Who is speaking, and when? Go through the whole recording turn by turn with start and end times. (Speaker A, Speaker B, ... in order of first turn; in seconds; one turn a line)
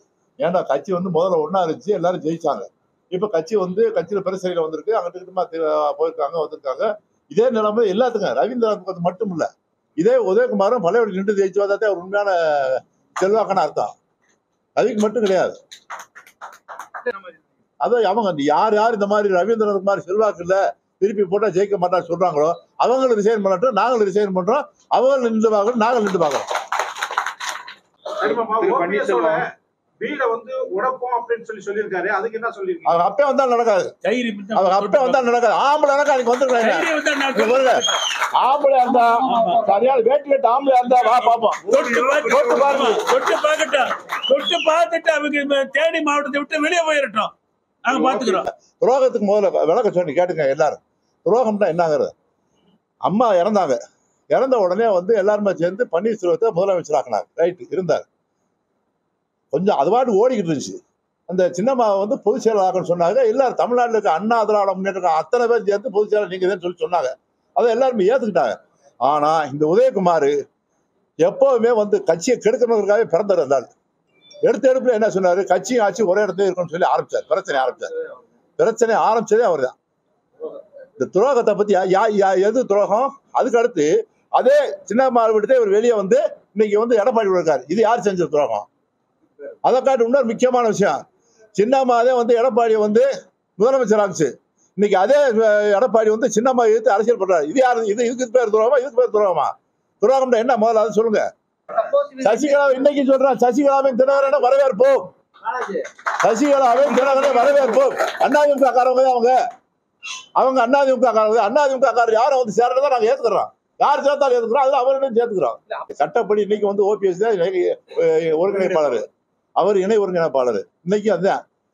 Speaker A: 0.4-9.5
Speaker A: 10.0-13.9
Speaker A: 14.8-15.6
Speaker A: 17.8-26.5
Speaker B: 28.2-32.9
Speaker A: 32.8-33.9
Speaker C: 34.0-35.3
Speaker A: 34.5-43.0
Speaker C: 36.6-38.0
Speaker C: 39.2-39.7
Speaker C: 41.6-47.3
Speaker C: 47.8-48.5
Speaker A: 47.9-52.1
Speaker A: 53.0-53.8
Speaker A: 54.3-58.0
Speaker A: 59.5-60.8
Speaker A: 61.3-70.3
Speaker A: 71.2-73.7
Speaker A: 74.4-77.9
Speaker A: 78.6-79.7
Speaker A: 81.0-88.7
Speaker A: 89.6-91.0
Speaker A: 91.5-93.1
Speaker A: 93.6-109.4
Speaker A: 110.4-119.1
Speaker A: 119.6-121.4